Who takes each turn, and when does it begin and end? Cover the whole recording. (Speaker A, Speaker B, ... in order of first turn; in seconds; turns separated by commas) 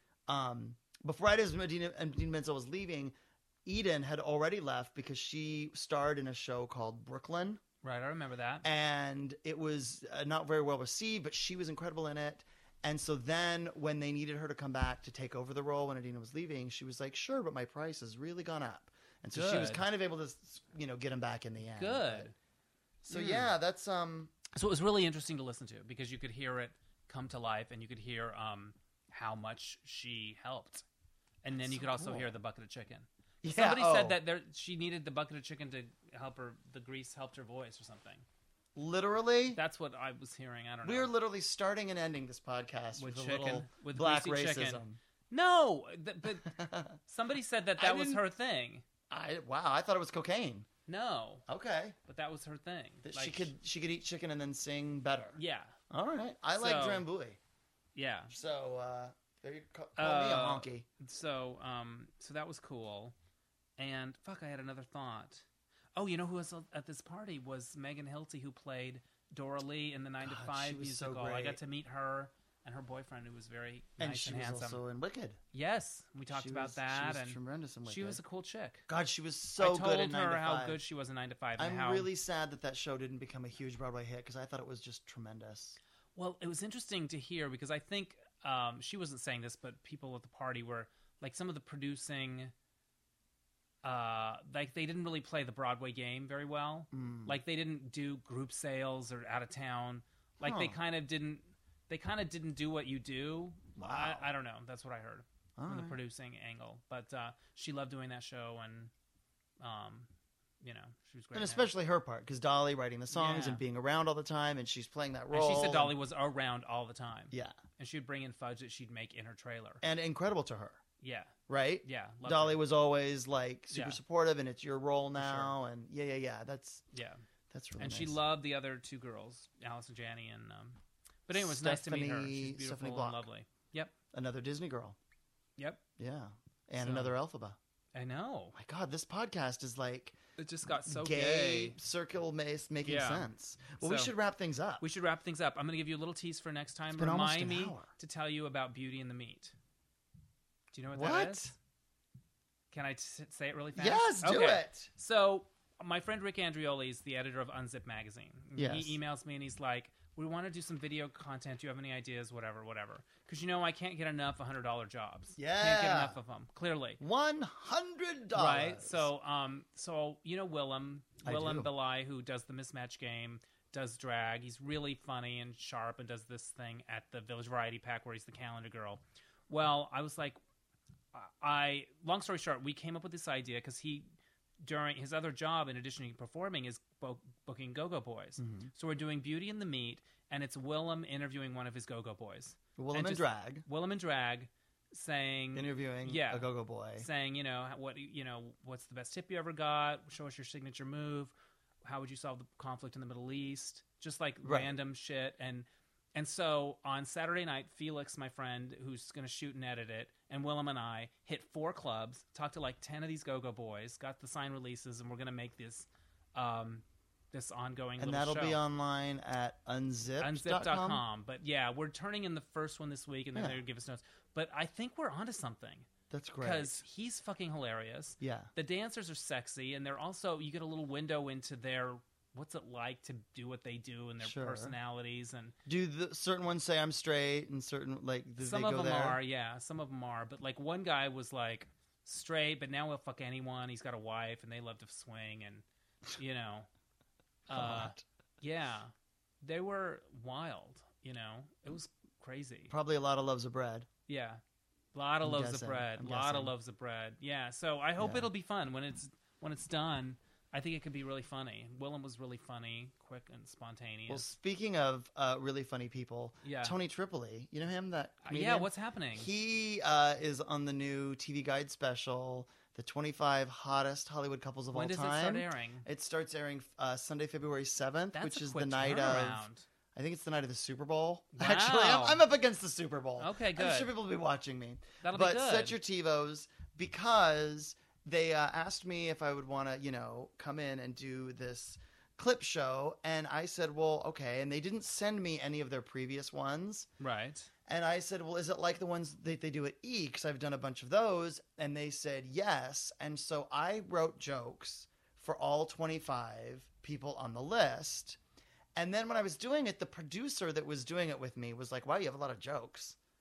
Speaker A: 0.3-7.6, Speaker B: 7.8-8.7, Speaker A: 8.6-22.3, Speaker B: 19.3-19.9, Speaker B: 21.7-22.4, Speaker A: 23.0-24.4, Speaker B: 23.1-23.5, Speaker B: 24.6-30.9, Speaker B: 31.4-38.3, Speaker A: 31.6-32.4, Speaker A: 33.4-34.2, Speaker A: 38.7-39.6, Speaker B: 39.5-41.1, Speaker A: 40.8-45.0, Speaker B: 43.0-48.8, Speaker A: 46.4-47.0, Speaker A: 47.8-48.2, Speaker A: 49.1-50.7, Speaker B: 50.9-51.5, Speaker A: 51.5-52.0, Speaker B: 52.1-53.5, Speaker A: 53.0-55.4, Speaker B: 55.4-55.7, Speaker A: 55.9-57.4, Speaker B: 56.6-57.1, Speaker B: 58.0-58.3, Speaker A: 58.3-60.9, Speaker B: 60.0-63.1, Speaker B: 63.8-74.8, Speaker A: 70.2-71.6, Speaker A: 74.0-75.4, Speaker B: 75.5-78.8, Speaker A: 76.3-78.2, Speaker A: 78.9-80.8, Speaker B: 79.6-82.1, Speaker A: 81.6-85.8, Speaker B: 86.2-92.5, Speaker B: 93.8-108.9, Speaker A: 96.9-97.4, Speaker A: 100.4-100.8, Speaker A: 103.8-104.3, Speaker A: 105.6-106.0, Speaker B: 109.6-110.1, Speaker B: 110.6-111.7, Speaker A: 111.3-115.9, Speaker B: 113.1-113.6, Speaker B: 115.3-119.8, Speaker A: 117.3-117.6, Speaker A: 119.8-120.8, Speaker B: 121.0-121.3, Speaker A: 121.5-126.8, Speaker B: 121.8-122.6, Speaker B: 123.7-124.0, Speaker B: 125.2-125.5, Speaker B: 126.9-127.2, Speaker A: 127.5-128.2, Speaker B: 127.8-133.9, Speaker A: 131.4-133.2, Speaker A: 134.1-135.0, Speaker B: 135.6-135.8, Speaker A: 136.0-137.6, Speaker B: 136.8-137.2, Speaker B: 137.9-138.6, Speaker A: 138.5-140.2, Speaker B: 140.4-141.8, Speaker A: 140.7-144.8, Speaker B: 142.8-143.3, Speaker B: 143.8-144.1, Speaker B: 144.8-149.6, Speaker A: 146.9-147.9, Speaker B: 150.7-151.5, Speaker A: 150.9-151.5, Speaker B: 152.7-167.0, Speaker A: 153.8-154.9, Speaker A: 158.6-159.0, Speaker A: 165.4-166.2, Speaker A: 167.0-169.1, Speaker B: 168.3-180.4, Speaker A: 171.2-171.7, Speaker B: 181.1-184.1, Speaker B: 184.6-201.3, Speaker A: 188.4-188.7, Speaker A: 192.8-193.6, Speaker A: 195.6-197.1, Speaker B: 201.8-218.6, Speaker A: 204.4-204.7, Speaker A: 218.0-221.0, Speaker B: 220.2-225.9, Speaker A: 226.1-226.8, Speaker B: 226.4-235.6, Speaker A: 228.2-228.5, Speaker A: 234.2-234.7, Speaker A: 235.7-239.2, Speaker B: 238.4-246.7, Speaker A: 247.5-248.0, Speaker B: 247.5-252.7, Speaker A: 252.7-253.9, Speaker B: 254.1-254.4, Speaker B: 254.9-264.3, Speaker A: 255.2-256.5, Speaker A: 258.0-258.3, Speaker A: 264.1-296.9, Speaker B: 266.4-266.8, Speaker B: 268.2-269.3, Speaker B: 274.7-275.9, Speaker B: 278.1-279.7, Speaker B: 281.3-282.2, Speaker B: 283.2-283.9, Speaker B: 285.0-285.7, Speaker B: 297.0-297.5, Speaker A: 297.7-308.2, Speaker A: 308.8-313.0